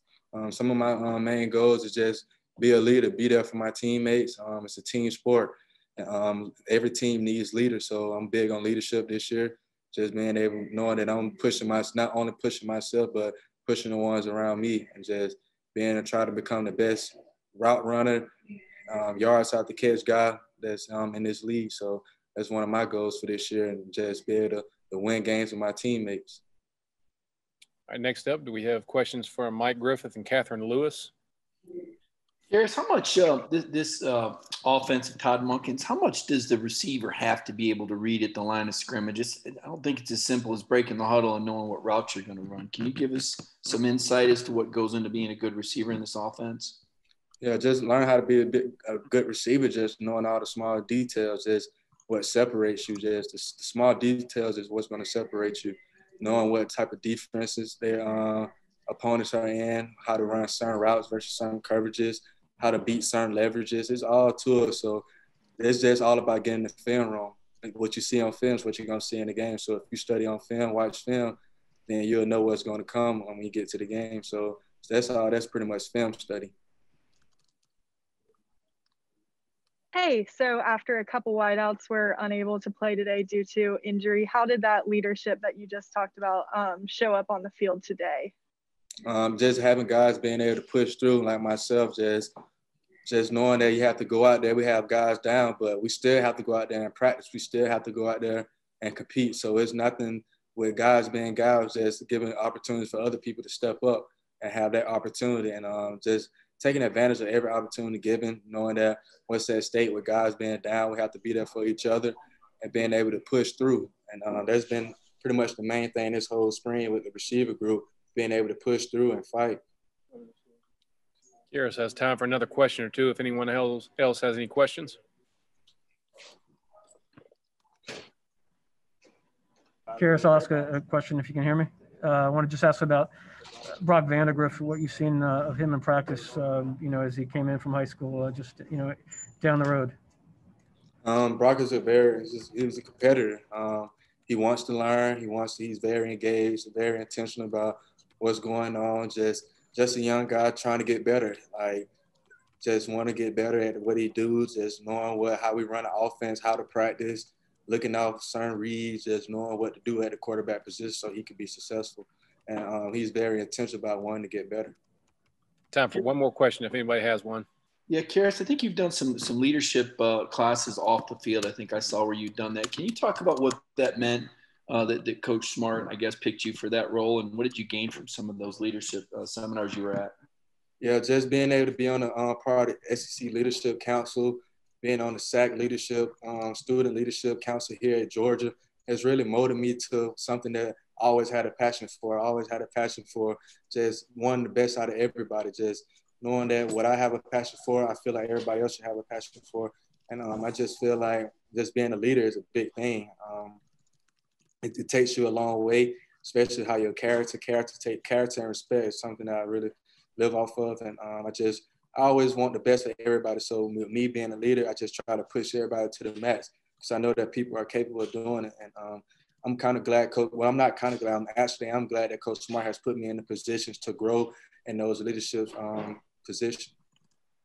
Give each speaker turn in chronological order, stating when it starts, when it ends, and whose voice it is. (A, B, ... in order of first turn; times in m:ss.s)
0:00.3-0:18.3 A
0:18.9-0:26.4 A
0:27.9-0:31.1 B
0:32.6-0:46.7 C
0:47.4-1:05.0 A
1:05.6-1:16.5 A
1:19.9-1:28.3 D
1:29.0-1:32.3 A
1:33.0-1:59.6 A
2:01.5-2:05.0 B
2:10.0-2:13.1 E
2:13.8-2:20.0 E
2:21.0-2:31.9 A
2:32.6-2:44.8 A
2:45.7-2:47.5 B
2:47.9-3:00.0 C
3:00.8-3:23.6 A
3:24.6-3:46.7 A